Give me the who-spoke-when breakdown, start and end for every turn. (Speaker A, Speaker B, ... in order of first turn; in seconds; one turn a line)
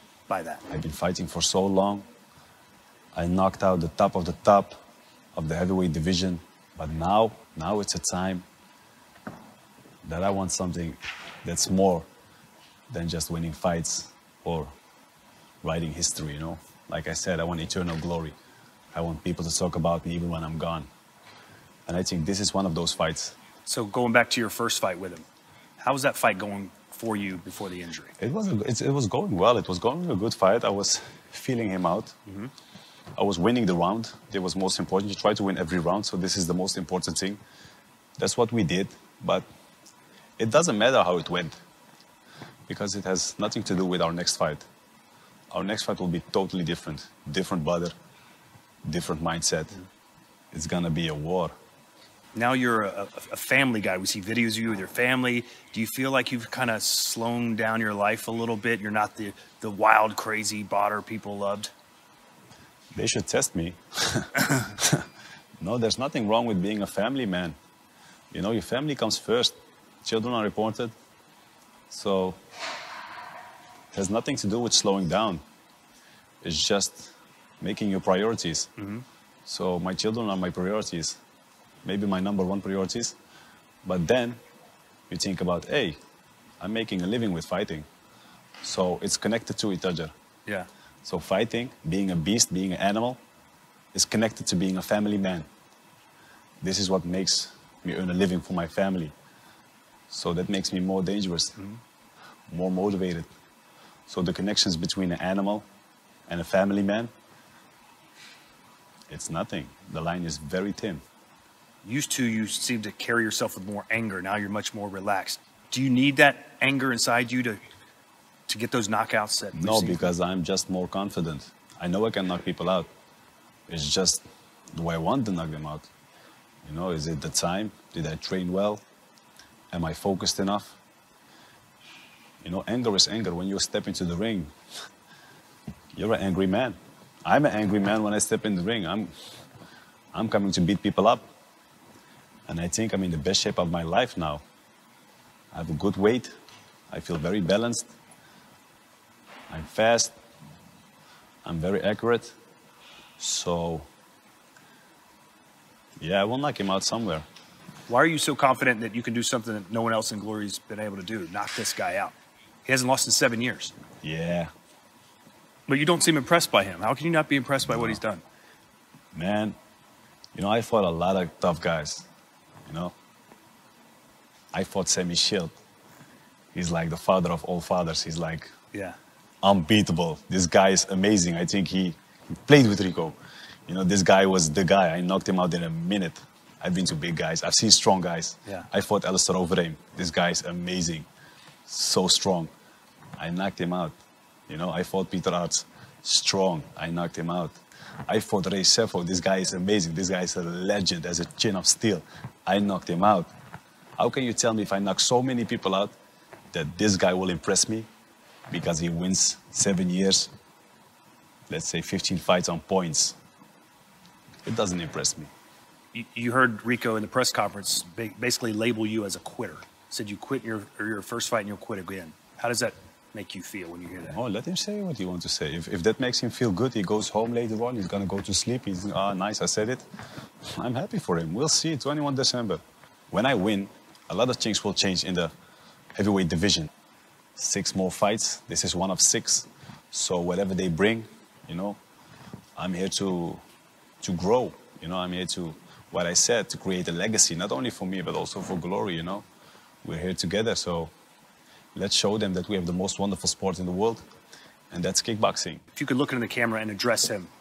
Speaker A: 0.3-0.6
Speaker B: 0.7-2.1
Speaker B: 3.1-4.8
Speaker B: 5.3-8.4
Speaker B: 10.0-12.1
Speaker B: 12.9-14.7
Speaker B: 15.6-18.4
Speaker B: 18.9-20.9
Speaker B: 21.9-23.4
Speaker A: 23.7-25.3
Speaker A: 25.8-28.1
Speaker B: 28.2-32.1
Speaker A: 32.3-32.5
Speaker B: 33.2-37.4
Speaker B: 38.2-39.5
Speaker B: 40.4-41.6
Speaker B: 42.7-44.6
Speaker B: 45.5-47.9
Speaker B: 48.8-49.8
Speaker B: 50.5-51.5
Speaker A: 52.4-61.7
Speaker B: 63.0-65.0
Speaker B: 65.6-67.6
Speaker B: 68.3-70.9
Speaker B: 71.9-72.4
Speaker B: 73.9-75.4
Speaker B: 76.4-78.7
Speaker A: 78.8-79.0
Speaker B: 79.5-81.2
Speaker B: 81.8-83.2
Speaker B: 83.8-84.4
Speaker B: 85.1-86.0
Speaker B: 86.6-87.9
Speaker B: 88.6-90.1
Speaker B: 91.0-93.2
Speaker B: 93.9-95.5
Speaker B: 96.6-99.1
Speaker B: 100.1-101.6
Speaker B: 102.5-103.3
Speaker B: 104.1-105.7
Speaker B: 106.3-107.1
Speaker B: 109.1-111.0
Speaker A: 111.8-117.6
Speaker A: 118.5-120.1
Speaker B: 119.5-122.9
Speaker B: 123.7-124.2
Speaker B: 124.8-125.9
Speaker B: 126.6-128.8
Speaker B: 129.7-130.8
Speaker B: 132.4-134.5
Speaker B: 135.9-139.1
Speaker B: 140.1-141.3
Speaker B: 142.5-144.4
Speaker B: 145.5-146.3
Speaker B: 146.9-147.9
Speaker B: 149.5-150.1
Speaker B: 151.4-152.4
Speaker B: 153.2-153.9
Speaker B: 156.0-157.2
Speaker A: 157.9-162.1
Speaker A: 162.7-163.7
Speaker B: 164.0-164.5
Speaker A: 165.7-168.2
Speaker B: 167.6-168.0
Speaker B: 169.1-169.6
Speaker B: 170.3-172.1
Speaker B: 172.7-172.9
Speaker B: 174.5-175.6
Speaker B: 176.5-178.5
Speaker A: 178.7-179.0
Speaker B: 179.4-183.2
Speaker B: 183.7-191.1
Speaker B: 191.7-192.5
Speaker B: 193.2-194.0
Speaker B: 194.5-197.6
Speaker B: 198.1-203.3
Speaker B: 204.0-205.9
Speaker B: 206.5-207.9
Speaker B: 208.5-210.3
Speaker B: 211.5-213.2
Speaker B: 214.4-215.3
Speaker A: 215.9-224.2
Speaker B: 224.1-229.8
Speaker B: 230.6-235.3
Speaker B: 235.9-236.7
Speaker B: 237.4-241.8
Speaker B: 242.6-243.4
Speaker B: 244.0-249.2
Speaker B: 249.8-250.9
Speaker B: 251.8-254.0
Speaker B: 254.7-255.6
Speaker A: 255.8-257.3